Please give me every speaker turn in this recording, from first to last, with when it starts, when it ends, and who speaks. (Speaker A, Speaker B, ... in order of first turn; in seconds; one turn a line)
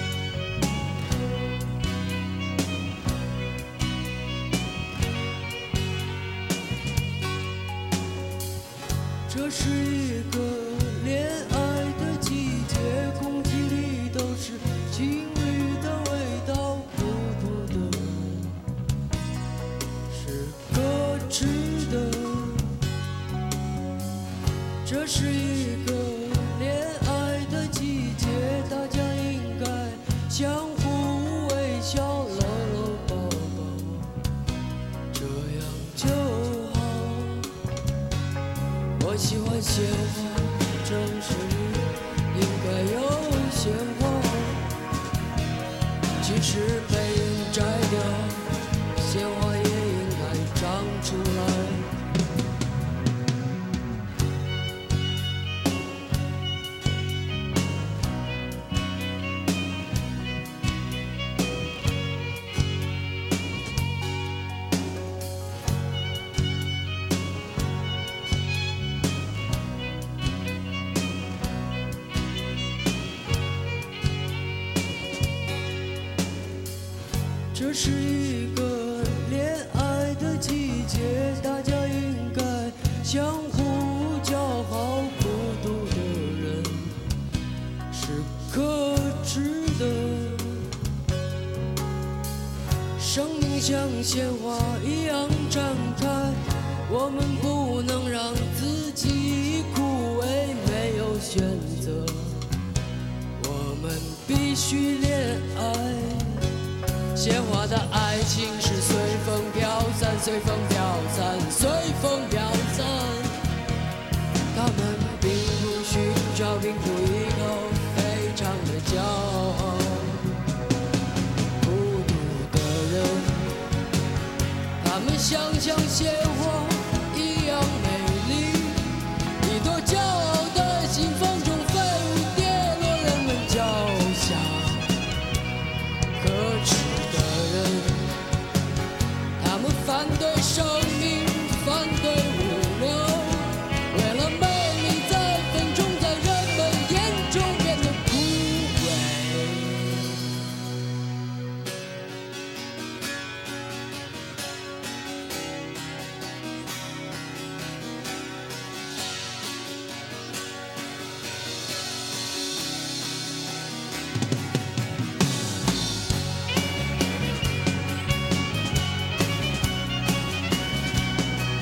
Speaker A: 9.3-18.6
Speaker A: 20.1-22.8
Speaker A: 24.8-34.2
Speaker A: 35.1-37.5
Speaker A: 39.0-44.6
Speaker A: 46.2-51.9
Speaker A: 77.5-87.0
Speaker A: 87.9-90.7
Speaker A: 93.0-102.5
Speaker A: 103.4-106.5
Speaker A: 107.1-113.4
Speaker A: 114.5-120.4
Speaker A: 121.6-123.6
Speaker A: 124.8-134.9
Speaker A: 136.1-138.1
Speaker A: 139.4-150.1